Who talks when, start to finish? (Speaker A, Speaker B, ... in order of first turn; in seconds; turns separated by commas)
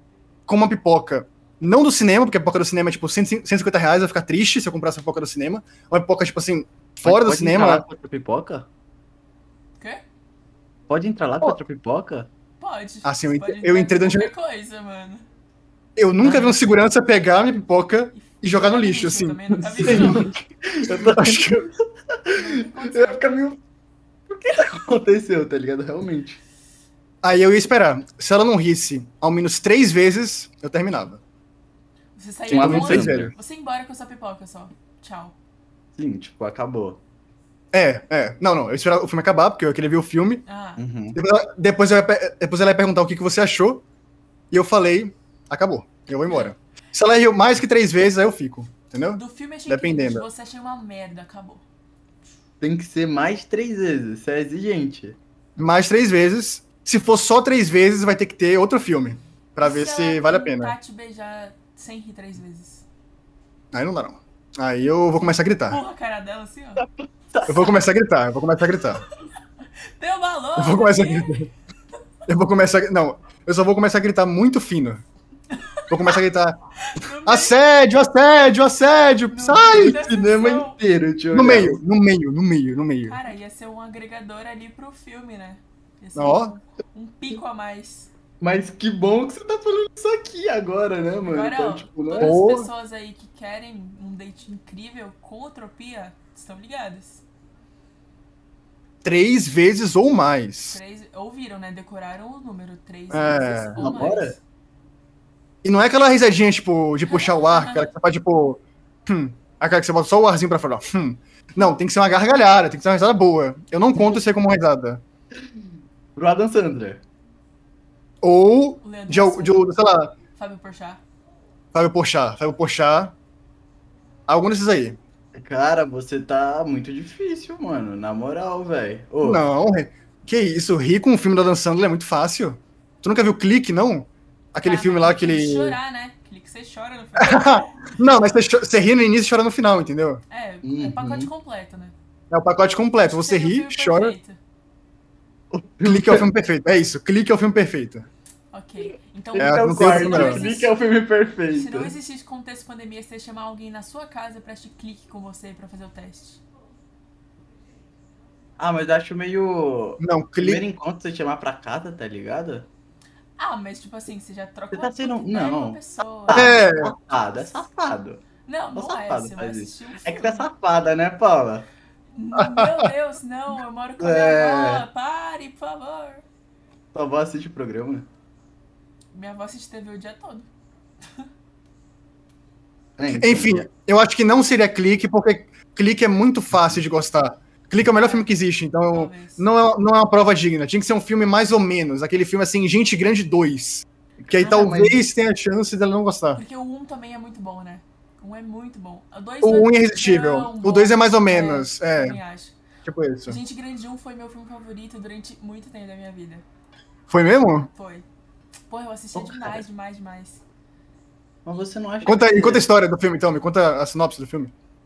Speaker A: 0.5-7.8, Speaker B: 7.0-8.7, Speaker C: 9.8-10.0, Speaker B: 10.9-12.3, Speaker C: 12.6-15.3, Speaker A: 13.0-14.3, Speaker A: 16.0-20.3, Speaker B: 16.2-16.7, Speaker C: 18.1-20.3, Speaker B: 19.6-23.6, Speaker A: 20.9-21.7, Speaker C: 22.3-23.4, Speaker B: 24.3-26.4, Speaker A: 27.2-31.2, Speaker C: 32.2-35.4, Speaker B: 32.5-33.3, Speaker A: 32.5-33.3, Speaker B: 36.0-37.0, Speaker A: 37.7-40.4, Speaker C: 40.5-40.8, Speaker B: 40.8-41.2, Speaker A: 41.1-43.8, Speaker A: 44.5-50.3, Speaker C: 46.3-46.5, Speaker C: 49.1-51.6, Speaker B: 52.6-55.2, Speaker A: 55.6-60.8, Speaker C: 59.6-62.9, Speaker A: 63.7-65.8, Speaker C: 65.2-66.8, Speaker B: 66.8-67.8, Speaker A: 67.5-69.0, Speaker C: 70.0-71.5, Speaker A: 70.6-71.5, Speaker A: 72.3-75.0, Speaker C: 75.5-76.2, Speaker A: 75.9-76.6, Speaker C: 76.8-77.6, Speaker A: 77.2-80.0, Speaker C: 79.3-80.8, Speaker B: 79.7-81.8, Speaker A: 81.3-83.2, Speaker C: 83.1-88.1, Speaker A: 86.2-86.5, Speaker B: 88.4-92.4, Speaker C: 91.3-97.2, Speaker A: 92.1-92.7, Speaker A: 99.0-100.8, Speaker C: 100.7-104.4, Speaker A: 103.1-104.0, Speaker B: 103.8-104.4, Speaker A: 105.6-115.0, Speaker C: 107.0-107.9, Speaker B: 116.2-117.0, Speaker A: 118.2-120.2, Speaker C: 118.8-119.7, Speaker C: 120.3-121.0, Speaker A: 121.7-123.1, Speaker A: 124.3-125.0, Speaker B: 125.3-129.4, Speaker A: 129.2-135.8, Speaker C: 134.6-137.9, Speaker A: 137.2-140.2, Speaker C: 140.3-141.9, Speaker B: 140.6-141.3, Speaker A: 142.3-144.2, Speaker C: 143.1-144.4, Speaker B: 145.5-146.3, Speaker A: 145.8-148.1, Speaker C: 148.5-150.7, Speaker B: 149.3-151.9, Speaker A: 149.4-150.5, Speaker C: 151.5-156.4, Speaker B: 158.6-162.7, Speaker A: 160.0-160.6, Speaker C: 163.4-166.6, Speaker B: 164.7-171.7, Speaker A: 166.3-166.9, Speaker C: 168.4-170.5, Speaker C: 172.1-176.2, Speaker A: 172.3-172.9, Speaker B: 174.0-174.9, Speaker B: 176.9-178.1, Speaker C: 179.1-180.5, Speaker C: 181.0-181.3, Speaker B: 183.0-183.7, Speaker A: 183.1-196.4, Speaker C: 187.9-188.3, Speaker C: 188.9-189.5, Speaker B: 194.2-195.0, Speaker C: 196.3-202.6, Speaker A: 199.4-202.2, Speaker A: 202.8-203.4, Speaker C: 203.3-206.4, Speaker A: 207.1-207.7, Speaker C: 207.7-208.1, Speaker C: 208.7-210.4, Speaker B: 209.2-209.6, Speaker B: 211.4-212.7, Speaker A: 212.0-214.5